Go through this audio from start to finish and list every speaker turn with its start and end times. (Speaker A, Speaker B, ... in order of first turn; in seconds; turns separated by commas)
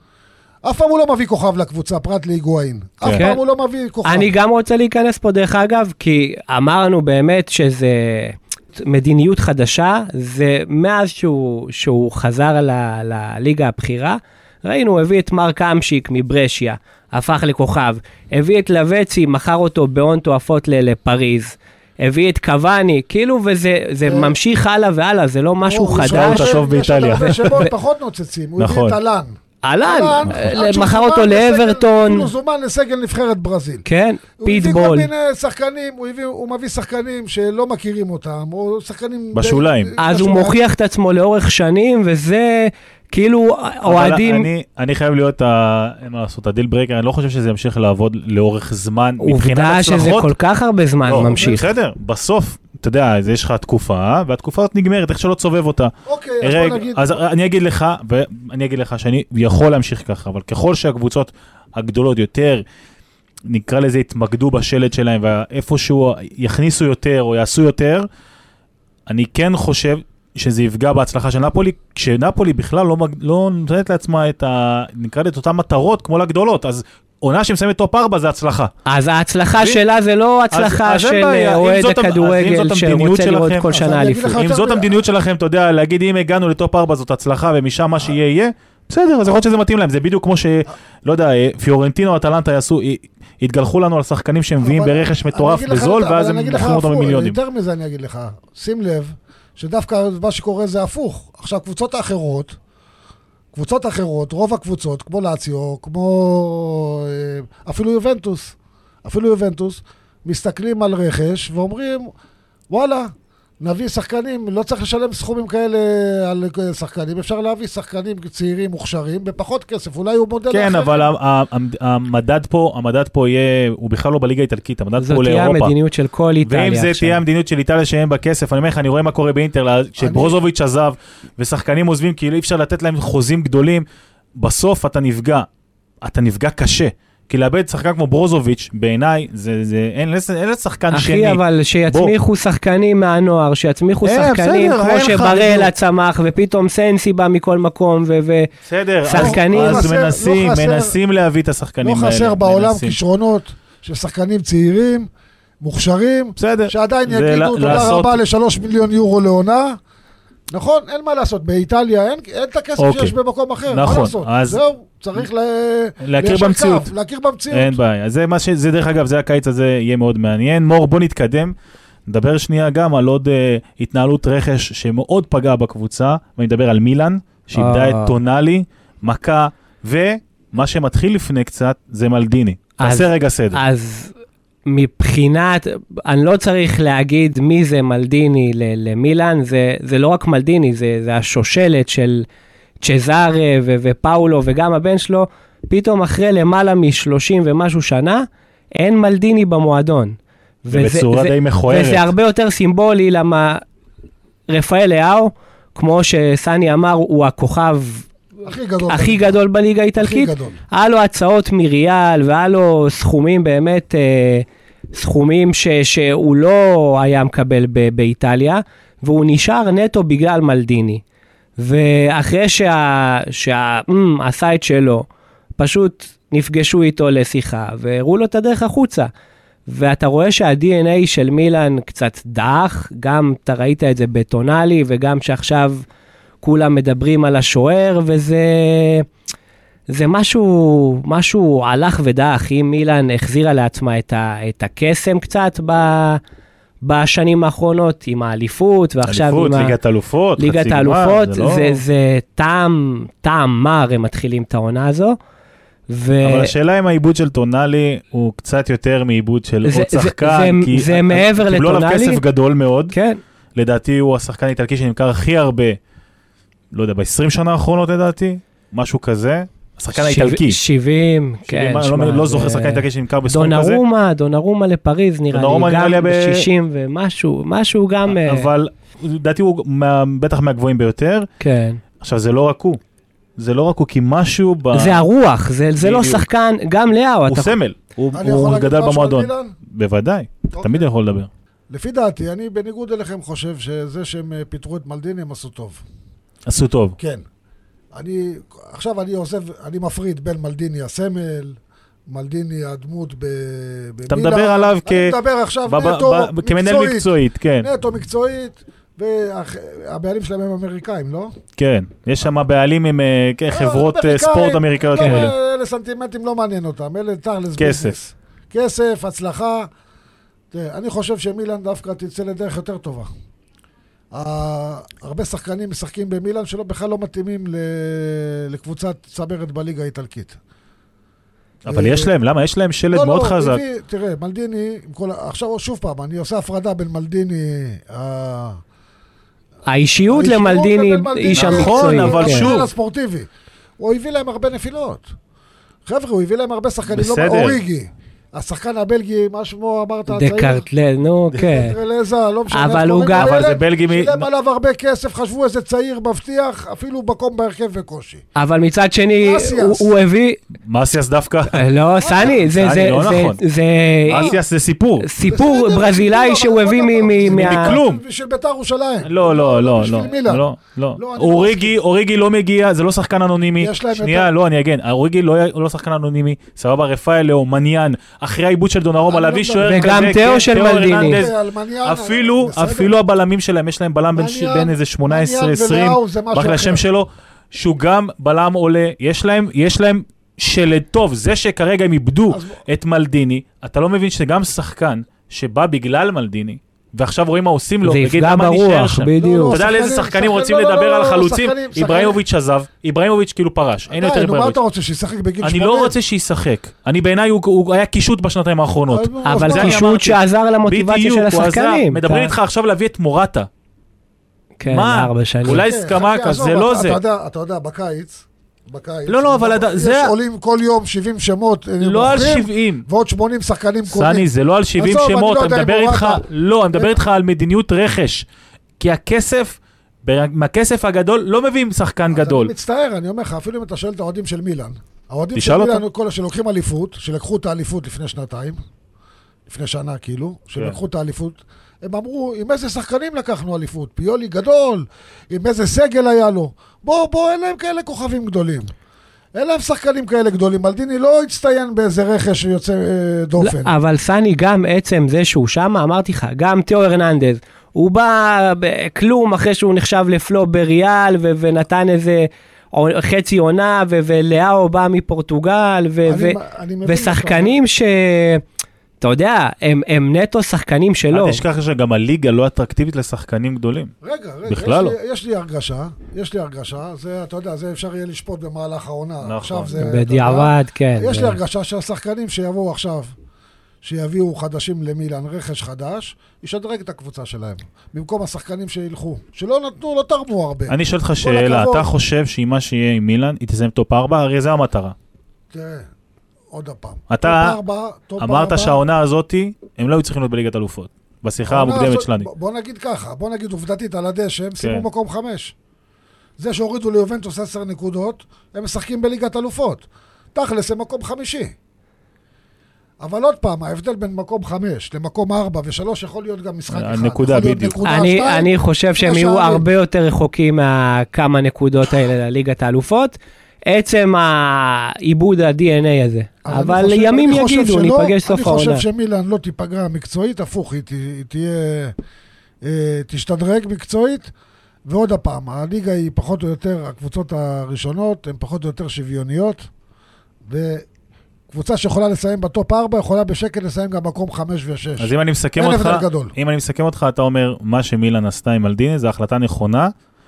Speaker A: 0.6-4.3, Speaker B: 3.1-3.4, Speaker B: 4.0-26.6, Speaker A: 24.0-24.3, Speaker A: 25.6-33.8, Speaker C: 26.1-27.7, Speaker B: 27.1-27.7, Speaker C: 28.6-28.9, Speaker B: 29.6-32.3, Speaker B: 33.9-35.1, Speaker A: 34.4-40.6, Speaker C: 39.3-39.9, Speaker B: 40.0-44.5, Speaker C: 43.8-50.3, Speaker B: 49.2-51.7, Speaker C: 51.1-62.6, Speaker A: 51.2-51.6, Speaker A: 56.0-57.2, Speaker C: 63.5-68.1, Speaker C: 69.1-78.7, Speaker B: 78.8-84.4, Speaker C: 80.5-83.7, Speaker A: 83.7-85.0, Speaker C: 84.3-97.4, Speaker A: 94.6-102.5, Speaker A: 103.5-112.1, Speaker A: 112.7-121.1, Speaker C: 120.5-125.7, Speaker B: 125.0-127.2, Speaker C: 126.4-133.8, Speaker A: 130.0-130.4, Speaker C: 134.4-135.5, Speaker C: 136.0-142.1, Speaker B: 140.9-148.5, Speaker C: 144.0-145.7, Speaker C: 148.7-153.0, Speaker B: 149.0-149.9, Speaker A: 149.1-150.9, Speaker A: 151.8-155.1, Speaker A: 155.6-159.8, Speaker C: 156.4-158.1, Speaker A: 160.5-167.8, Speaker C: 162.8-163.1, Speaker C: 163.7-164.6, Speaker C: 166.0-166.9, Speaker C: 167.5-171.5, Speaker C: 172.1-183.6, Speaker B: 177.5-178.1, Speaker B: 182.8-184.1, Speaker B: 184.7-192.2, Speaker B: 192.8-203.6, Speaker C: 200.7-202.1, Speaker B: 204.5-208.1, Speaker A: 208.4-209.4, Speaker B: 208.9-221.0, Speaker A: 209.9-210.6, Speaker B: 221.6-225.1, Speaker B: 225.6-229.1, Speaker B: 229.7-235.8, Speaker B: 236.4-239.1, Speaker B: 239.9-246.2, Speaker B: 246.8-249.7, Speaker C: 249.1-251.8, Speaker B: 250.4-255.2, Speaker B: 255.9-256.5, Speaker C: 256.2-262.9, Speaker B: 259.6-262.2, Speaker B: 262.9-263.2, Speaker C: 263.6-265.8, Speaker C: 266.7-270.6, Speaker B: 269.9-278.5, Speaker C: 271.4-273.8, Speaker C: 275.3-276.5, Speaker C: 278.1-281.3, Speaker B: 281.4-281.8, Speaker C: 282.0-282.8, Speaker C: 283.4-285.0, Speaker B: 284.7-287.6, Speaker C: 285.8-286.2, Speaker C: 287.3-291.3, Speaker A: 288.1-289.5, Speaker A: 290.5-290.9, Speaker A: 291.7-295.8, Speaker C: 296.5-297.0, Speaker A: 297.0-297.2, Speaker A: 297.9-311.3, Speaker C: 304.1-307.7, Speaker C: 311.6-315.3, Speaker A: 313.5-319.7, Speaker B: 315.0-315.3, Speaker C: 317.6-317.9, Speaker A: 320.5-323.1, Speaker A: 324.1-330.4, Speaker C: 331.6-333.6, Speaker A: 331.7-332.1, Speaker A: 332.9-338.6, Speaker B: 339.7-342.5, Speaker A: 340.0-343.3, Speaker C: 341.3-342.7, Speaker A: 343.8-345.1, Speaker A: 345.9-350.6, Speaker C: 346.9-347.6, Speaker B: 350.1-351.7, Speaker A: 351.3-358.2, Speaker B: 352.5-353.4, Speaker C: 353.1-354.3, Speaker B: 358.4-360.4, Speaker A: 359.2-359.9, Speaker C: 360.7-363.4, Speaker B: 361.5-364.3, Speaker A: 362.0-362.4, Speaker C: 364.1-365.1, Speaker A: 364.1-364.4, Speaker B: 365.0-367.8, Speaker A: 365.2-370.4, Speaker C: 367.2-368.0, Speaker C: 369.0-404.6, Speaker A: 370.9-371.8, Speaker A: 373.6-374.3, Speaker A: 379.1-382.9, Speaker B: 379.6-381.2, Speaker A: 384.1-386.8, Speaker A: 392.3-392.6, Speaker B: 397.8-399.6, Speaker A: 399.2-402.2, Speaker A: 403.9-405.9, Speaker C: 405.4-413.5, Speaker A: 408.9-409.8, Speaker B: 409.2-412.3, Speaker B: 414.6-415.6, Speaker C: 414.7-417.0, Speaker A: 415.5-426.9, Speaker C: 419.1-420.1, Speaker C: 421.8-422.8, Speaker C: 423.9-428.2, Speaker C: 428.8-432.5, Speaker A: 432.1-438.6, Speaker C: 435.3-435.8, Speaker A: 439.5-448.7, Speaker A: 449.4-453.7, Speaker B: 453.4-468.4, Speaker A: 466.1-467.6, Speaker B: 469.0-471.4, Speaker C: 471.1-473.9, Speaker A: 474.0-483.1, Speaker C: 474.5-474.9, Speaker C: 479.2-479.8, Speaker B: 479.8-481.4, Speaker A: 483.8-491.9, Speaker C: 490.7-494.9, Speaker A: 495.5-495.9, Speaker A: 496.5-498.8, Speaker C: 497.1-497.6, Speaker C: 498.2-502.3, Speaker A: 501.5-505.5, Speaker C: 504.6-504.9, Speaker A: 506.4-511.5, Speaker A: 513.0-519.6, Speaker C: 516.7-517.8, Speaker B: 517.8-528.8, Speaker A: 526.4-531.9, Speaker A: 532.6-534.3, Speaker A: 534.9-539.7, Speaker A: 540.5-540.9, Speaker A: 541.5-546.3, Speaker C: 545.0-549.9